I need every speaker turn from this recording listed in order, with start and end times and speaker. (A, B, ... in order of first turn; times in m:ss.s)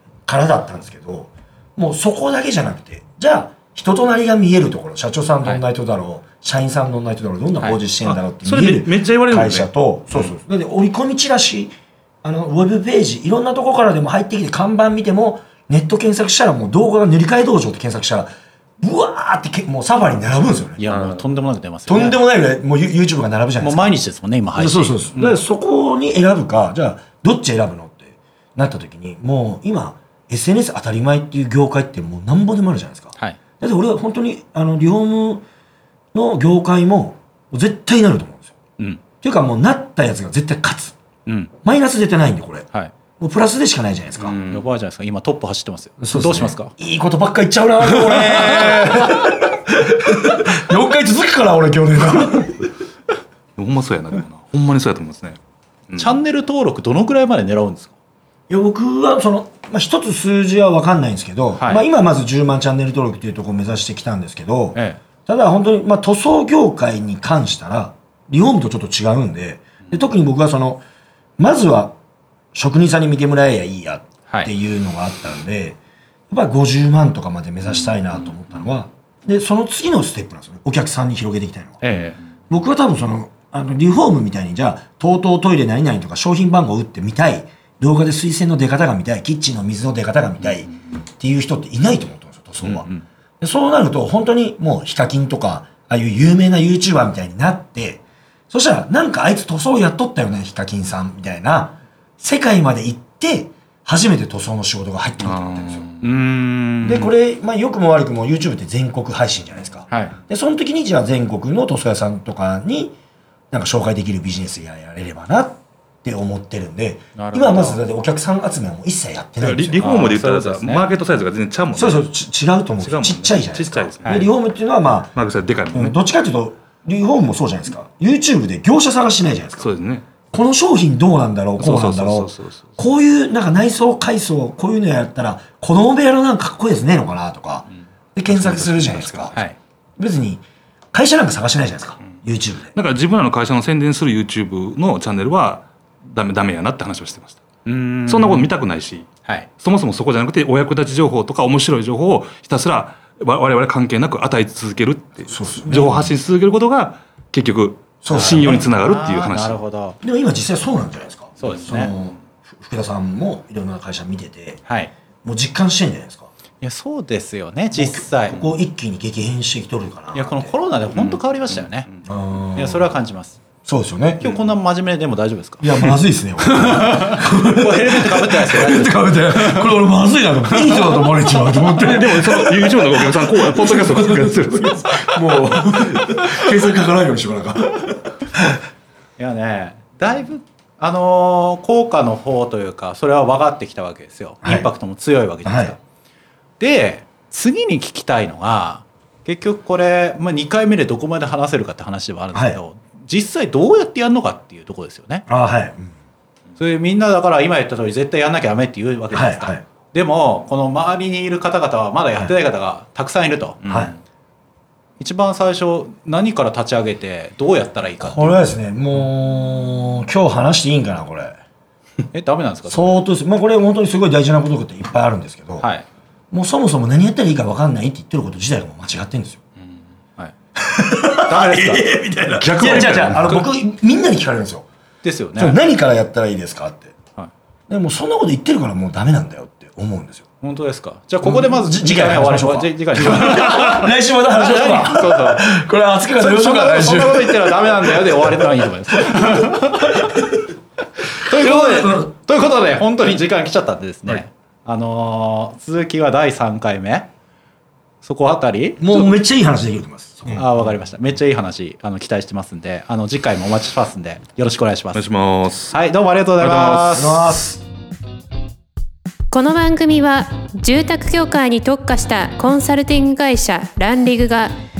0:00.2-0:20.8 A
0:08.0-0:09.7 B
0:20.8-0:22.2 C
0:20.9-0:21.2 B
0:21.9-0:23.8 A
0:23.6-0:25.4 C
0:24.6-0:35.4 A
0:36.1-0:38.6 A
0:39.2-0:41.0 A
0:41.2-0:41.5 C
0:41.6-0:42.6 A
0:43.2-0:44.4 A
0:44.2-0:44.7 B
0:44.4-0:46.7 C
0:46.0-0:52.7 A
0:48.0-0:49.2 C
0:53.6-0:56.2 B
0:56.0-0:57.9 C
0:58.5-1:10.8 A
1:01.6-1:01.8 C
1:04.7-1:05.0 C
1:11.4-1:11.9 A
1:12.5-1:15.8 A
1:16.3-1:21.8 A
1:21.8-1:22.2 C
1:22.5-1:32.9 A
1:32.6-1:33.0 C
1:33.4-1:45.8 A
1:45.2-1:46.1 B
1:46.0-1:47.1 C
1:46.8-1:52.9 A
1:49.9-1:50.2 C
1:53.5-2:00.1 A
1:57.2-1:57.8 C
1:59.4-2:02.1 B
1:59.8-2:00.9 C
2:01.7-2:05.1 A
2:02.8-2:04.3 B
2:04.0-2:04.3 C
2:05.1-2:06.0 B
2:05.7-2:09.7 A
2:09.6-2:10.0 B
2:10.3-2:19.3 A
2:11.6-2:12.7 B
2:18.3-2:19.6 C
2:19.0-2:19.3 B
2:20.0-2:22.7 A
2:22.7-2:27.4 B
2:27.6-2:28.5 C
2:28.0-2:39.6 B
2:35.3-2:36.1 A
2:38.0-2:38.7 A
2:38.1-2:40.0 C
2:40.0-2:44.6 A
2:41.4-2:41.9 C
2:44.6-2:44.9 C
2:45.2-2:46.3 A
2:46.6-2:48.4 C
2:47.7-2:50.5 A
2:50.1-2:52.0 C
2:50.9-2:51.2 B
2:52.0-2:52.9 A
2:52.5-2:53.4 C
2:53.6-2:54.3 A
2:54.2-2:59.8 C
2:55.6-3:08.4 A
3:00.6-3:00.9 C
3:01.6-3:05.0 B
3:09.2-3:15.8 C
3:14.4-3:14.7 A
3:15.4-3:15.8 A
3:16.6-3:25.2 C
3:22.3-3:22.6 A
3:25.3-3:25.9 A
3:26.6-3:33.9 C
3:29.1-3:29.6 A
3:33.7-3:34.0 A
3:35.0-3:38.4 C
3:38.0-3:41.4 A
3:42.1-3:42.9 C
3:42.7-3:45.7 A
3:46.3-3:49.4 A
3:50.6-3:54.7 A
3:51.3-3:51.9 C
3:52.4-3:53.5 B
3:55.0-3:55.6 C
3:55.3-3:56.9 A
3:57.7-4:00.2 A
4:00.4-4:05.5 C
4:01.2-4:08.2 A
4:06.1-4:10.2 C
4:11.0-4:17.1 C
4:11.3-4:12.1 A
4:18.0-4:19.2 C
4:18.8-4:20.6 A
4:20.3-4:25.0 C
4:24.9-4:25.8 B
4:25.7-4:27.3 C
4:26.4-4:26.9 B
4:26.9-4:27.6 A
4:29.3-4:34.5 D